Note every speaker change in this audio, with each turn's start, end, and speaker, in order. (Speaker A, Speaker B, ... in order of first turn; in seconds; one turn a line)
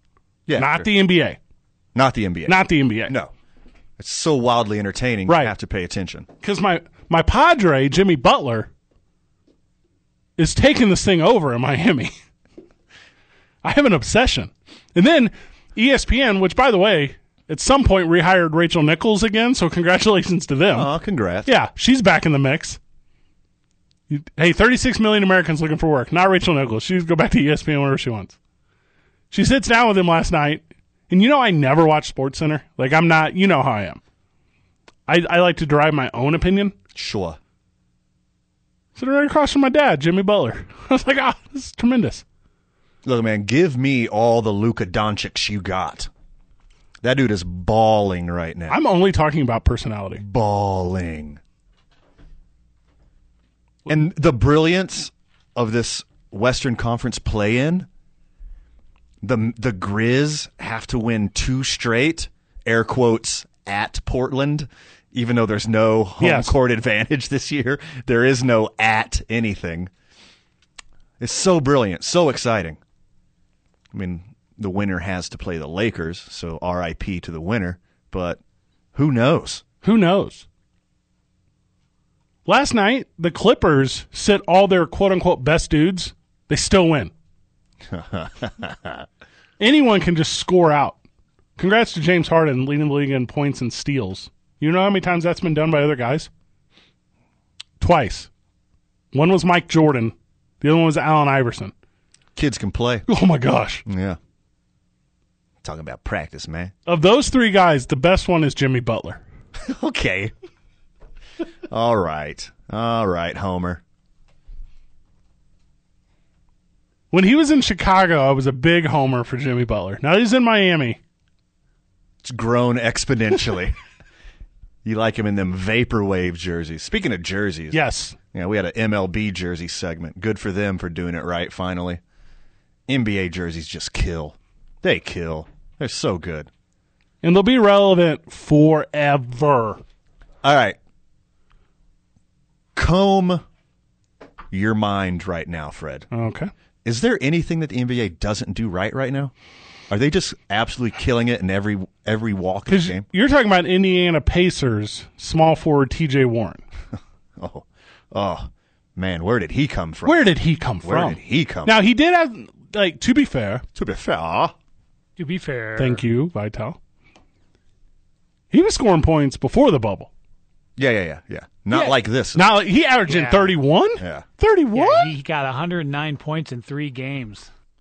Speaker A: 0.5-0.9
Speaker B: 0.6-1.4
Speaker A: 1.9-3.3
Speaker B: 2.5-3.1
Speaker A: 4.0-6.3
Speaker B: 5.3-5.5
Speaker B: 6.4-8.7
Speaker B: 10.4-12.1
Speaker B: 13.6-20.9
Speaker A: 20.7-21.5
Speaker B: 21.4-22.8
Speaker B: 24.1-28.4
Speaker B: 29.3-34.0
Speaker B: 35.1-36.7
Speaker A: 36.9-37.4
Speaker B: 39.0-42.2
Speaker A: 43.0-46.1
Speaker A: 47.0-48.8
Speaker B: 48.7-50.2
Speaker A: 50.2-51.4
Speaker A: 53.9-57.9
Speaker A: 59.2-69.9
Speaker B: 66.2-66.5
Speaker A: 71.2-72.8
Speaker A: 73.9-78.4
Speaker A: 78.9-79.6
Speaker B: 79.8-80.5
Speaker B: 82.5-87.1
Speaker A: 87.9-89.0
Speaker B: 89.6-91.0
Speaker B: 91.6-96.3
Speaker B: 97.8-98.3
Speaker B: 99.1-101.7
Speaker A: 102.3-103.0
Speaker B: 103.1-103.8
Speaker A: 103.8-104.2
Speaker A: 105.6-106.7
Speaker B: 106.8-109.2
Speaker A: 109.6-110.3
Speaker A: 111.7-113.8
Speaker B: 117.1-121.0
Speaker A: 122.2-123.8
Speaker A: 124.8-127.8
Speaker B: 127.7-128.2
Speaker A: 128.3-132.0
Speaker A: 132.9-136.5
Speaker B: 137.2-139.8
Speaker A: 140.4-140.8
Speaker A: 142.8-143.4
Speaker A: 144.5-146.1
Speaker B: 146.1-146.5
Speaker A: 146.8-149.3
Speaker A: 149.9-153.0
Speaker B: 152.7-156.6
Speaker A: 157.4-161.8
Speaker B: 160.0-163.6
Speaker A: 163.7-164.5
Speaker C: 165.2-166.0
Speaker B: 165.8-166.8
Speaker B: 168.5-170.1
Speaker A: 170.8-172.5
Speaker B: 171.7-175.1
Speaker C: 173.1-173.6
Speaker A: 174.0-174.2
Speaker C: 174.7-177.5